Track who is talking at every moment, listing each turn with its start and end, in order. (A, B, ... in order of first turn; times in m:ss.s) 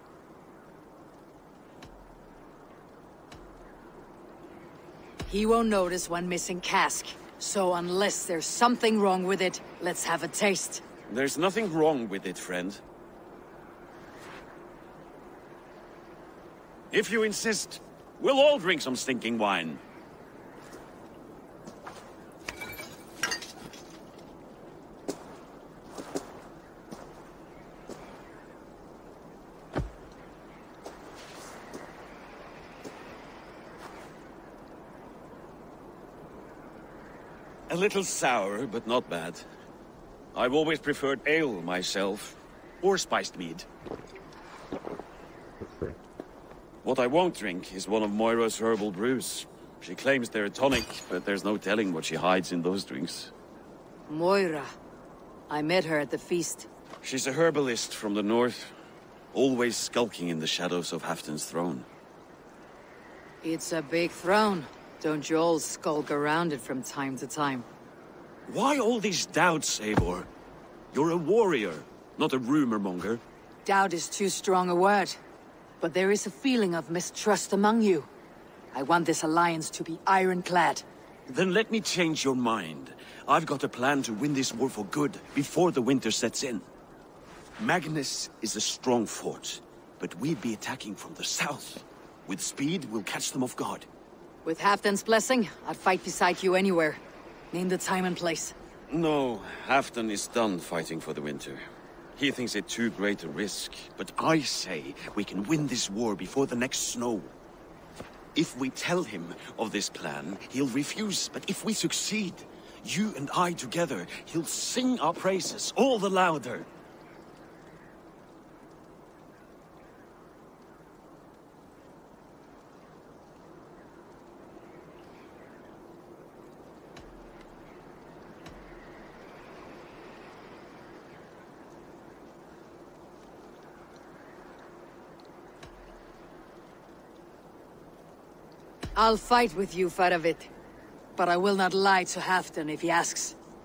0:05.3-0:10.8 A
0:11.1-0:12.8 B
0:16.9-0:19.8 B
0:37.7-0:39.4 B
0:40.3-0:43.6 B
0:46.8-0:53.3 B
0:54.1-0:54.7 A
0:55.5-0:56.7 A
0:57.0-0:58.7 B
0:59.3-1:01.8 B
1:03.4-1:07.6 A
1:08.5-1:10.3 B
1:10.9-1:13.2 B
1:13.6-1:15.2 A
1:15.8-1:18.1 A
1:18.7-1:20.8 A
1:21.3-1:26.6 B
1:27.6-1:33.8 B
1:34.4-1:37.0 A
1:37.5-1:38.5 A
1:38.9-1:41.6 B
1:42.2-1:47.3 B
1:48.3-1:56.7 B
2:19.0-2:20.5 A
2:21.2-2:23.3 A